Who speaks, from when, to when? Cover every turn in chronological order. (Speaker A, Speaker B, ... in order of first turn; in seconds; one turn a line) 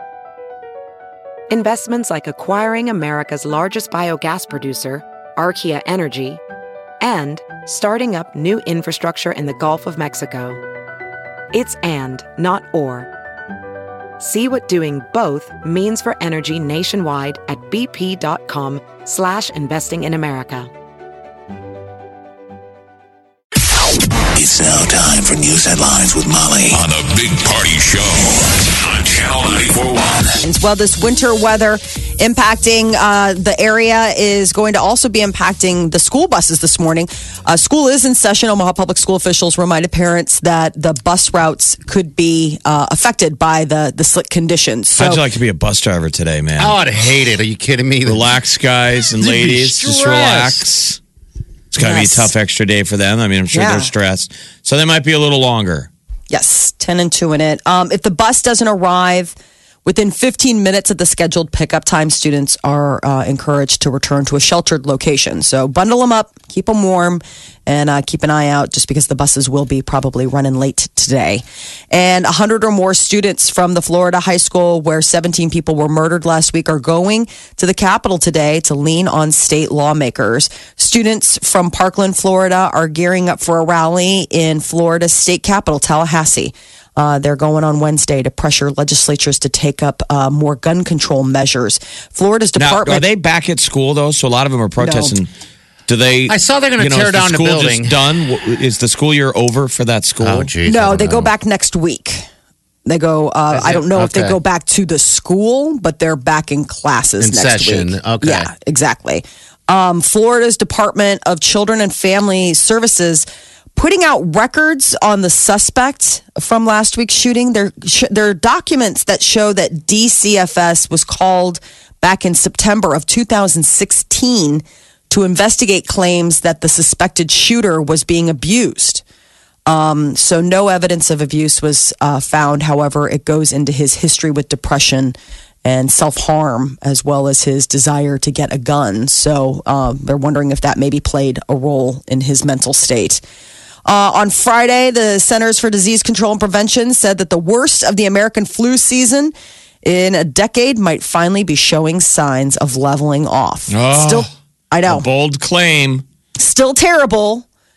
Speaker A: 1.5-6.4
Speaker A: 7.0-10.6
Speaker A: 11.5-13.1
Speaker A: 14.2-20.7
Speaker B: 24.4-30.2
Speaker C: 30.4-45.3
Speaker D: 44.9-46.8
Speaker E: 46.6-48.3
Speaker D: 48.1-51.0
Speaker E: 49.2-50.7
Speaker D: 51.7-55.9
Speaker C: 51.8-52.3
Speaker C: 53.5-53.9
Speaker C: 56.3-93.0
Speaker D: 92.6-95.3
Speaker C: 94.8-95.2
Speaker D: 95.9-100.5
Speaker E: 96.3-98.0
Speaker E: 100.2-101.3
Speaker C: 100.6-102.3
Speaker C: 102.8-129.0
Speaker E: 103.5-104.4
Speaker E: 107.2-108.5
Speaker C: 129.7-143.2
Speaker C: 143.8-155.1
Speaker D: 153.7-154.3
Speaker D: 154.9-156.0
Speaker C: 156.4-157.4